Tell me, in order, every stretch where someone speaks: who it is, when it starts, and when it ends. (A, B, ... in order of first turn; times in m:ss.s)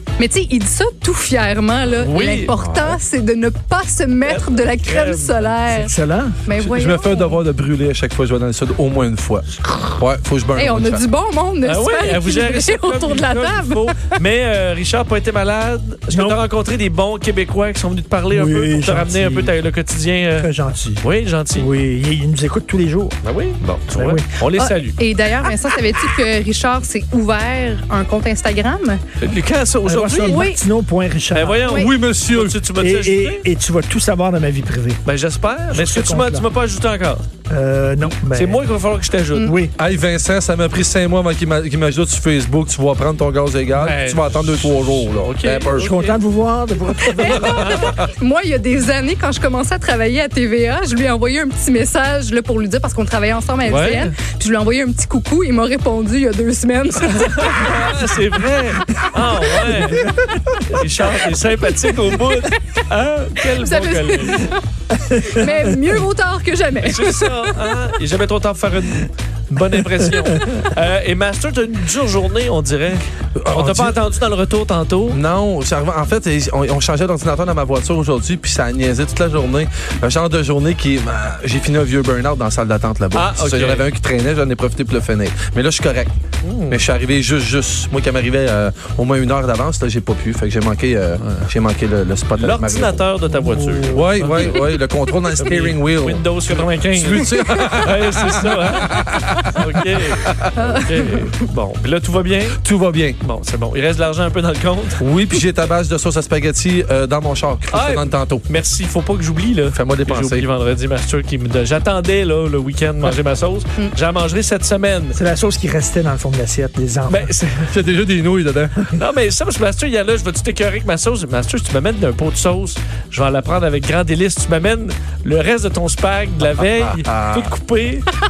0:00.2-0:05.9 A
0:02.0-0:02.5 B
0:02.6-0:03.0 C
0:04.2-0:05.5 B
0:05.7-0:06.4 D
0:06.4-0:07.4 A
0:06.5-0:11.0 C
0:10.5-0:14.0 A
0:11.6-0:20.5 B
0:16.1-0:16.4 D
0:18.3-0:19.6 D
0:20.4-0:21.0 D
0:21.0-0:21.7 B
0:21.6-0:23.2 D
0:23.2-0:25.0 B
0:23.9-0:24.3 D
0:24.5-0:29.0 A
0:29.2-0:30.4 B
0:29.8-0:31.8 D
0:30.2-0:30.6 A
0:31.3-0:33.4 B
0:31.6-0:31.9 A
0:31.7-0:32.6 C
0:32.8-0:35.0 D
0:35.0-0:37.2 B
0:35.7-0:36.4 D
0:37.5-0:38.6 D
0:38.0-0:39.6 B
0:39.4-0:39.7 D
0:39.8-0:46.0 C
0:43.7-0:46.2 B
0:45.7-0:47.7 D
0:47.0-0:57.9 A
0:47.2-0:48.0 B
0:53.6-0:54.2 B
0:57.0-1:04.5 B
0:59.5-1:00.6 D
1:03.5-1:04.6 A
1:04.9-1:05.4 D
1:05.2-1:07.7 A
1:06.8-1:15.2 B
1:13.4-1:14.0 C
1:15.1-1:26.1 C
1:23.1-1:23.9 B
1:26.4-1:26.8 B
1:26.7-1:33.0 C
1:32.4-1:34.8 B
1:33.9-1:39.5 C
1:35.4-1:42.6 B
1:40.2-1:40.8 C
1:40.6-1:41.3 A
1:42.6-1:43.2 C
1:43.2-1:45.0 B
1:45.0-1:48.4 C
1:47.7-1:55.2 B
1:49.7-1:50.5 C
1:55.1-1:57.3 D
1:57.1-1:57.7 B
1:57.7-1:58.9 C
1:58.9-2:08.1 B
2:06.6-2:07.5 C